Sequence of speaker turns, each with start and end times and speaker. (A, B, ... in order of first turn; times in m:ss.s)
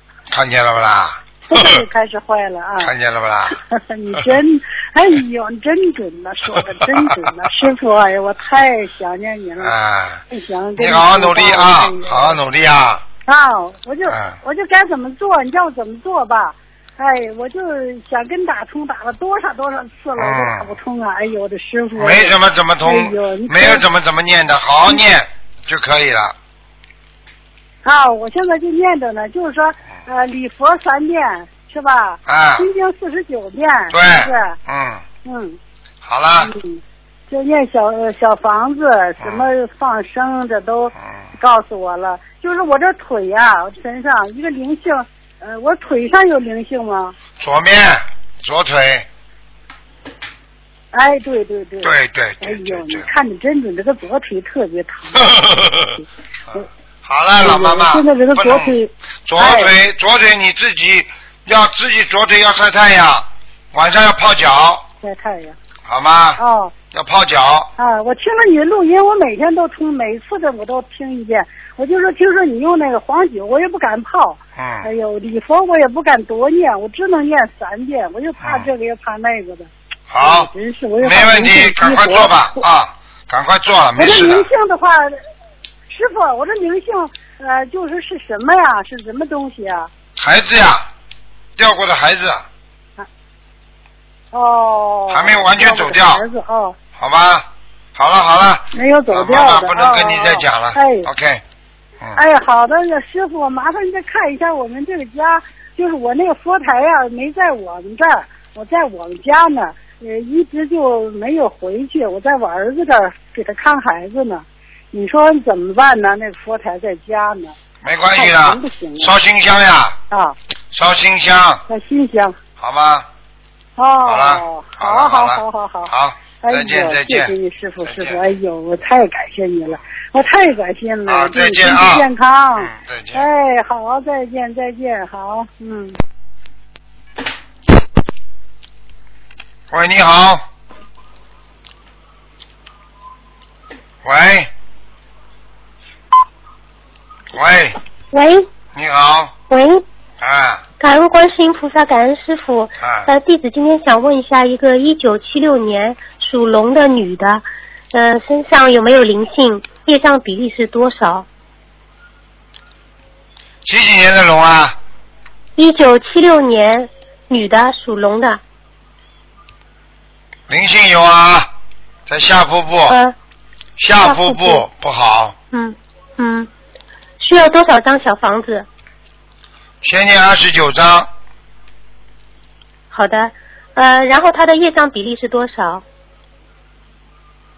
0:00.3-0:01.8 A
0:01.5-0:02.9 B
0:02.8-0:03.6 A
0:03.7-0:09.7 B
0:09.6-0:10.2 A
0:10.3-0:12.4 B
0:10.8-0:13.0 A
0:13.3-0:23.8 B
0:14.1-0:14.4 A
0:20.2-0:20.7 A
0:22.0-0:26.3 A
0:27.8-0:34.6 B
0:32.2-0:32.6 A
0:33.9-0:35.0 A
0:35.2-0:35.6 B
0:36.0-0:36.5 A
0:36.4-0:47.2 B
0:47.4-0:49.1 A
0:50.9-0:56.0 B
0:51.8-0:53.1 A
0:55.2-0:55.8 A
0:56.5-0:58.7 A
0:57.4-0:59.7 B
0:59.3-1:04.8 A
1:05.0-1:05.6 B
1:05.8-1:06.4 A
1:06.4-1:06.7 B
1:06.9-1:07.7 A
1:07.8-1:22.6 B
1:14.6-1:14.9 A
1:20.1-1:24.5 A
1:24.0-1:25.2 B
1:25.9-1:29.9 B
1:30.2-1:30.9 A
1:31.6-1:32.4 A
1:34.3-1:36.8 B
1:35.1-1:36.2 A
1:37.0-1:41.4 A
1:38.7-1:41.1 B
1:42.2-1:57.6 B
1:57.8-2:00.0 A
1:58.1-1:59.1 B
2:00.1-2:00.4 B
2:00.7-2:01.6 A
2:01.7-2:02.4 B
2:02.6-2:03.1 A
2:03.8-2:05.9 B
2:04.0-2:07.3 A
2:06.4-2:16.0 B
2:07.8-2:08.2 A
2:11.1-2:12.0 A
2:12.6-2:13.2 A
2:19.7-2:20.4 A
2:24.0-2:24.5 A
2:27.3-2:27.8 A
2:28.1-2:28.4 C
2:28.7-2:29.3 A
2:29.5-2:29.8 C
2:30.2-2:30.6 A
2:30.8-2:41.2 C
2:32.8-2:33.1 A
2:43.6-2:44.8 A
2:45.6-2:48.4 C
2:50.5-2:51.5 A
2:52.0-2:53.0 A
2:52.9-2:53.1 C
2:53.8-2:55.4 A
2:54.0-2:54.6 C
2:55.5-2:56.5 C
2:57.2-2:58.7 C
2:59.8-3:01.1 A
3:02.9-3:05.8 C